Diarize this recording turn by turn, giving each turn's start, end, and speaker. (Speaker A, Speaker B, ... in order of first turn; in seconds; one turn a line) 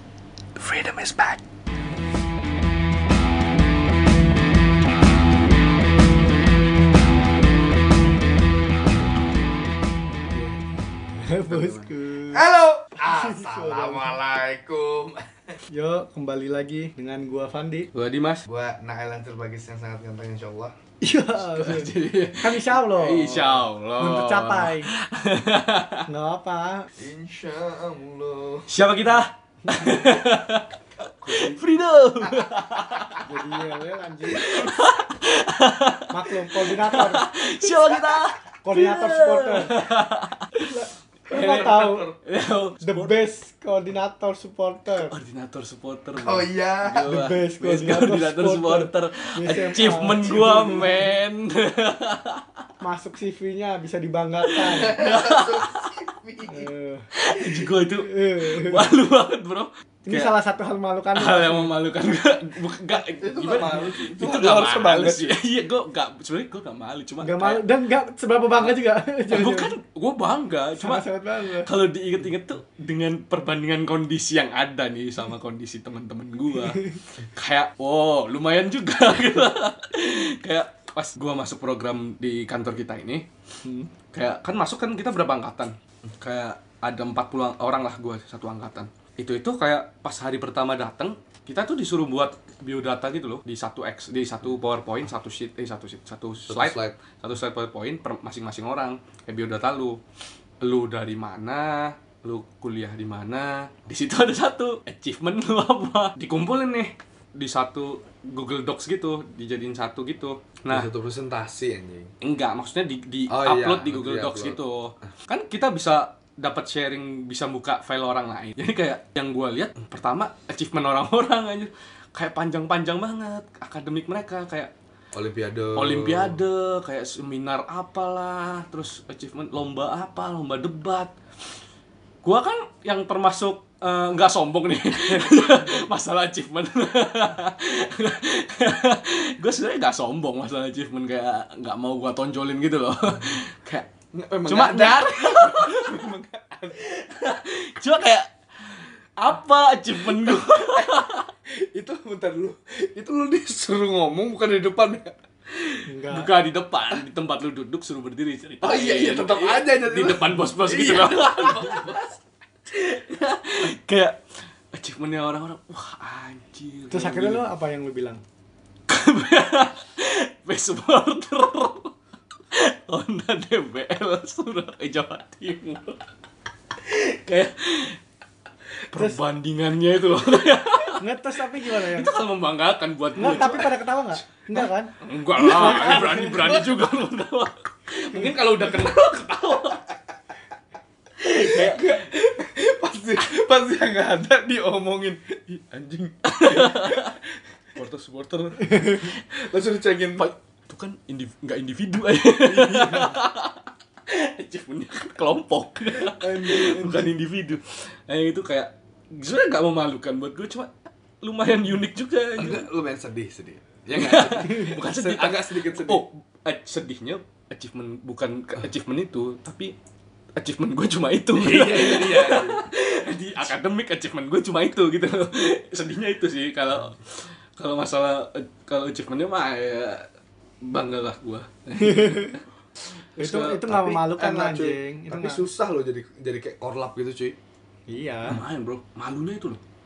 Speaker A: 0.6-1.4
Speaker B: 10.3-10.6
Speaker B: 11.2-12.4
Speaker C: 11.5-15.6
Speaker B: 13.0-14.2
Speaker B: 15.7-17.9
Speaker A: 17.9-18.4
Speaker C: 18.4-20.8
Speaker B: 21.0-24.9
Speaker A: 21.5-26.1
Speaker B: 26.1-26.9
Speaker C: 27.0-28.7
Speaker A: 28.7-30.7
Speaker B: 29.6-30.0
Speaker C: 31.2-31.6
Speaker A: 31.3-33.2
Speaker C: 32.2-33.2
Speaker B: 33.2-34.8
Speaker A: 34.2-40.7
Speaker B: 36.1-37.3
Speaker C: 37.8-38.3
Speaker B: 38.6-39.8
Speaker B: 40.6-42.1
Speaker A: 41.3-43.2
Speaker C: 41.3-42.2
Speaker B: 42.8-45.1
Speaker A: 45.1-52.6
Speaker C: 46.2-47.2
Speaker B: 47.0-50.7
Speaker C: 50.2-51.1
Speaker B: 52.8-55.0
Speaker A: 54.5-56.0
Speaker C: 54.7-56.7
Speaker B: 56.5-57.1
Speaker A: 57.1-60.3
Speaker B: 58.0-58.9
Speaker B: 60.1-61.7
Speaker A: 61.1-67.6
Speaker C: 63.0-65.4
Speaker B: 67.2-69.8
Speaker A: 69.3-83.3
Speaker B: 70.8-71.7
Speaker A: 84.0-100.0
Speaker C: 96.5-97.0
Speaker A: 100.6-110.9
Speaker C: 110.7-112.1
Speaker A: 112.2-124.7
Speaker C: 113.3-114.6
Speaker C: 125.1-126.4
Speaker A: 125.8-131.1
Speaker A: 132.2-143.9
Speaker C: 135.3-135.8
Speaker C: 144.1-147.0
Speaker A: 144.5-146.1
Speaker A: 146.8-151.3
Speaker C: 150.0-155.2
Speaker A: 155.5-162.0
Speaker B: 155.9-156.3
Speaker C: 158.6-162.2
Speaker A: 162.7-164.2
Speaker A: 164.7-167.5
Speaker B: 166.9-168.2
Speaker A: 168.9-171.9
Speaker A: 172.5-176.0
Speaker A: 176.8-178.0
Speaker A: 178.9-183.8
Speaker B: 178.9-179.2
Speaker B: 181.0-182.2
Speaker B: 183.2-186.7
Speaker A: 184.5-189.9
Speaker C: 185.6-186.7
Speaker C: 191.2-197.2
Speaker A: 191.2-192.0
Speaker A: 196.3-197.2
Speaker A: 197.8-199.2
Speaker C: 198.7-200.2
Speaker A: 200.2-210.7
Speaker C: 202.4-203.2
Speaker C: 206.0-207.1
Speaker A: 211.2-212.7
Speaker C: 212.4-216.1
Speaker A: 213.9-219.7
Speaker A: 220.4-230.1
Speaker C: 221.3-222.7
Speaker A: 230.6-232.4
Speaker B: 231.8-232.4
Speaker A: 233.2-233.8
Speaker B: 233.2-235.5
Speaker C: 233.7-237.4
Speaker B: 237.9-238.4
Speaker A: 238.3-239.6